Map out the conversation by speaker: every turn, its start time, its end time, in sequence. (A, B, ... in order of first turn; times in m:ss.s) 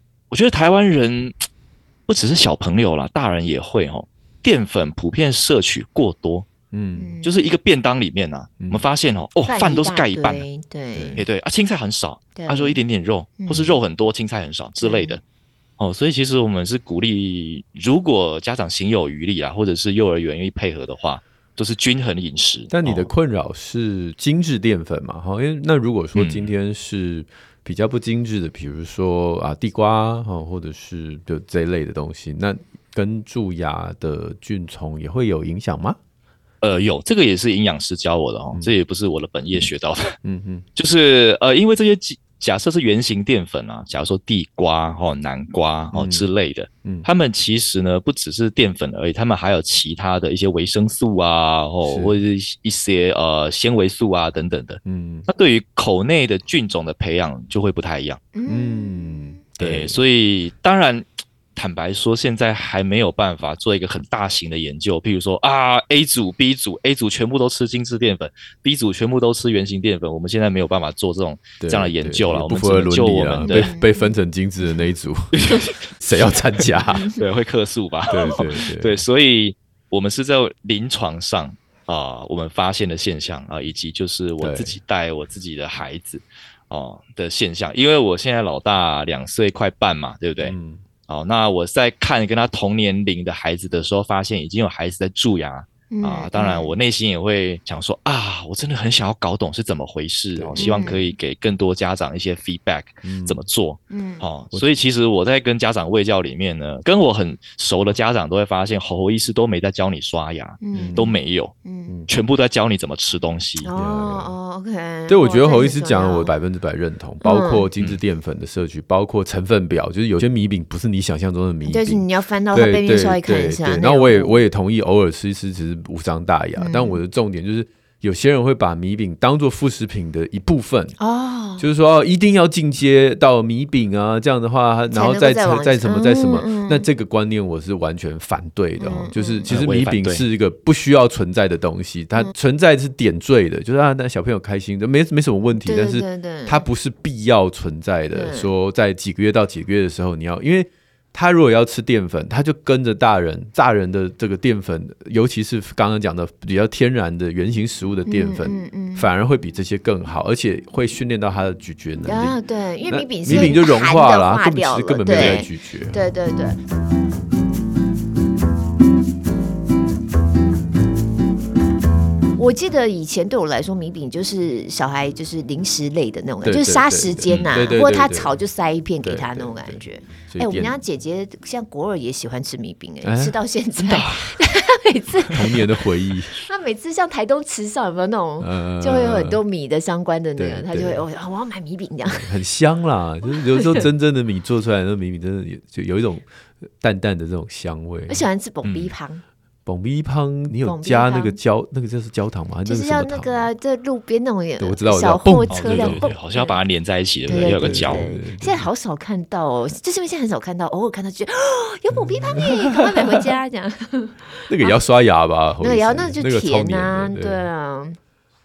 0:00.3-0:01.4 A
0:02.1-0:06.5 A
0:06.7-0:07.2 B
0:07.0-0:07.3 C
0:07.2-0:10.4 A
0:09.4-0:11.2 C
0:10.9-0:11.2 B
0:11.2-0:15.2 A
0:12.3-0:12.8 C
0:13.4-0:13.7 C
0:14.8-0:15.2 C
0:15.8-0:23.1 A
0:22.7-0:36.0 B
0:26.1-0:26.5 A
0:36.6-0:40.1 A
0:40.2-0:40.6 B
0:40.8-0:58.2 A
0:45.9-0:46.3 B
0:51.8-0:52.1 B
0:54.8-0:55.3 B
0:58.3-0:59.4 C
0:58.5-1:00.0 B
0:59.6-1:13.7 A
1:11.6-1:15.4 B
1:13.4-1:14.1 C
1:15.3-1:30.6 A
1:16.0-1:17.1 B
1:16.9-1:17.2 C
1:18.1-1:19.0 B
1:24.4-1:24.8 B
1:30.4-1:30.8 B
1:31.1-1:51.5 A
1:35.9-1:36.8 C
1:40.4-1:41.0 B
1:40.6-1:41.1 C
1:43.0-1:43.4 B
1:43.9-1:44.2 C
1:50.6-1:51.9 C
1:50.7-1:51.1 B
1:52.1-1:53.7 A
1:53.6-1:56.3 C
1:53.7-1:54.3 B
1:55.1-2:11.0 B
1:57.2-1:57.7 C
2:01.6-2:04.4 C
2:06.6-2:07.0 C
2:11.0-2:11.7 C
2:11.6-2:42.4 B
2:14.9-2:16.9 C
2:18.8-2:19.5 C
2:19.5-2:20.2 A
2:25.6-2:26.6 C
2:28.1-2:28.5 C
2:38.0-2:39.1 C
2:42.0-2:46.6 C
2:42.9-2:46.0 B
2:52.4-3:05.6 C
2:56.4-2:58.3 B
2:57.3-2:57.6 A
2:59.0-3:00.8 B
3:03.0-3:03.4 B
3:03.9-3:04.3 A
3:05.3-3:06.4 B
3:06.4-3:12.3 C
3:08.4-3:09.4 B
3:10.4-3:11.0 B
3:12.1-3:16.3 B
3:13.5-3:13.8 C
3:16.8-3:18.2 B
3:18.1-3:19.2 C
3:18.6-3:18.9 A
3:19.6-3:23.5 B
3:20.6-3:21.4 C
3:22.6-3:26.6 C
3:24.6-3:26.1 B
3:25.5-3:28.0 A
3:27.3-3:34.8 C
3:27.3-3:28.7 B
3:32.0-3:33.2 B
3:34.5-3:37.5 B
3:35.6-3:38.0 C